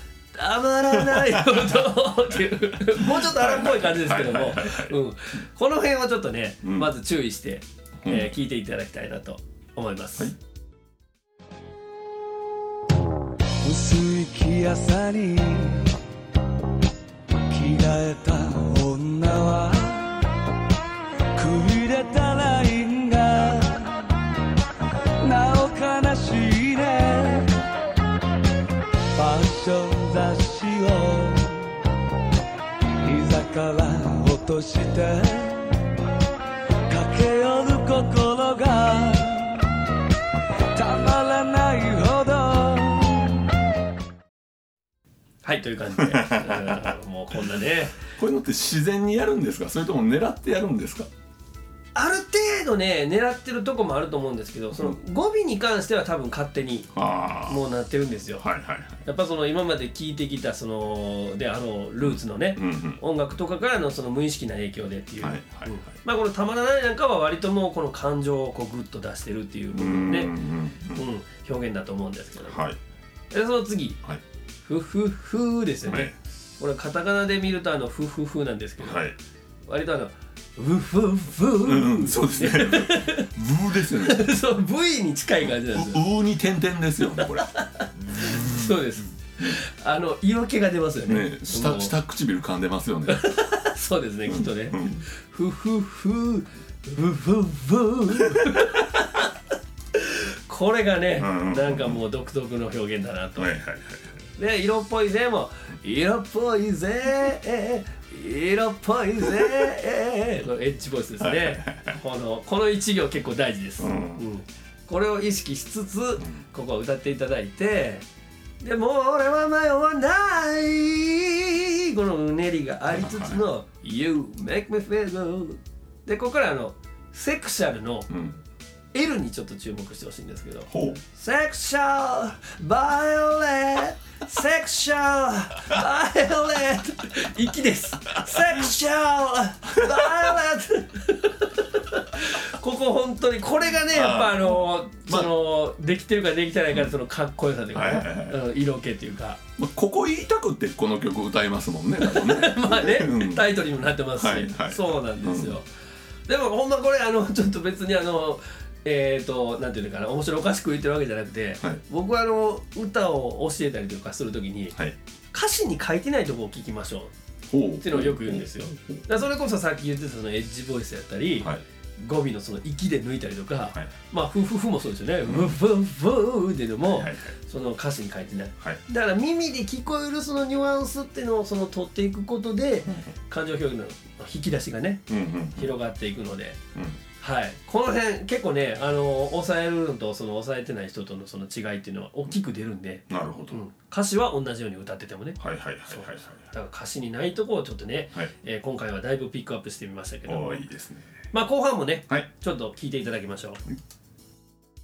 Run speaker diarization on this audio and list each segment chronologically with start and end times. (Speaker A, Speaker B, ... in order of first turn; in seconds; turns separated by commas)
Speaker A: 0.3-10.3, Speaker B: 1.0-1.7, Speaker B: 2.9-5.0, Speaker B: 6.6-6.9, Speaker B: 8.0-8.3, Speaker C: 13.6-15.9, Speaker C: 17.5-20.3, Speaker C: 21.3-24.1, Speaker C: 25.2-27.5, Speaker C: 29.1-31.7, Speaker C: 33.0-35.7, Speaker C: 36.9-39.7, Speaker C: 40.7-43.4, Speaker A: 45.4-48.0, Speaker B: 46.0-46.9, Speaker B: 48.1-51.1, Speaker A: 51.9-56.9, Speaker B: 56.9-57.6, Speaker A: 57.5-58.4, Speaker B: 58.4-59.0, Speaker A: 59.0-70.3, Speaker B: 62.0-63.0, Speaker B: 65.2-65.8, Speaker B: 69.7-71.0, Speaker A: 70.9-72.7, Speaker B: 72.5-72.8, Speaker A: 73.3-74.0, Speaker A: 74.7-79.0, Speaker B: 75.8-76.2, Speaker B: 78.8-79.2, Speaker A: 79.7-86.0, Speaker B: 81.6-84.3, Speaker B: 85.4-87.5, Speaker A: 87.4-92.0, Speaker B: 88.0-88.8, Speaker B: 91.0-93.3, Speaker A: 93.1-99.3, Speaker B: 94.3-95.0, Speaker B: 98.2-98.7, Speaker A: 100.0-103.5, Speaker B: 101.2-102.0, Speaker B: 103.4-104.1, Speaker A: 104.4-118.0, Speaker B: 111.2-112.0, Speaker B: 113.8-114.2, Speaker A: 118.6-128.1, Speaker B: 123.0-123.4, Speaker B: 128.1-128.4, Speaker A: 128.9-149.4, Speaker B: 130.7-131.0, Speaker B: 139.7-140.3, Speaker B: 143.9-145.3, Speaker B: 147.7-148.4, Speaker B: 149.6-153.5, Speaker A: 152.0-155.7, Speaker B: 154.2-155.6, Speaker A: 156.3-164.8, Speaker A: 165.3-167.1, Speaker B: 167.5-169.0, Speaker A: 167.8-186.6, Speaker B: 175.2-175.6, Speaker B: 176.8-177.3, Speaker B: 185.1-185.7, Speaker A: 187.2-200.7, Speaker B: 193.1-193.6, Speaker B: 195.4-196.4, Speaker B: 200.2-201.1, Speaker A: 201.3-203.6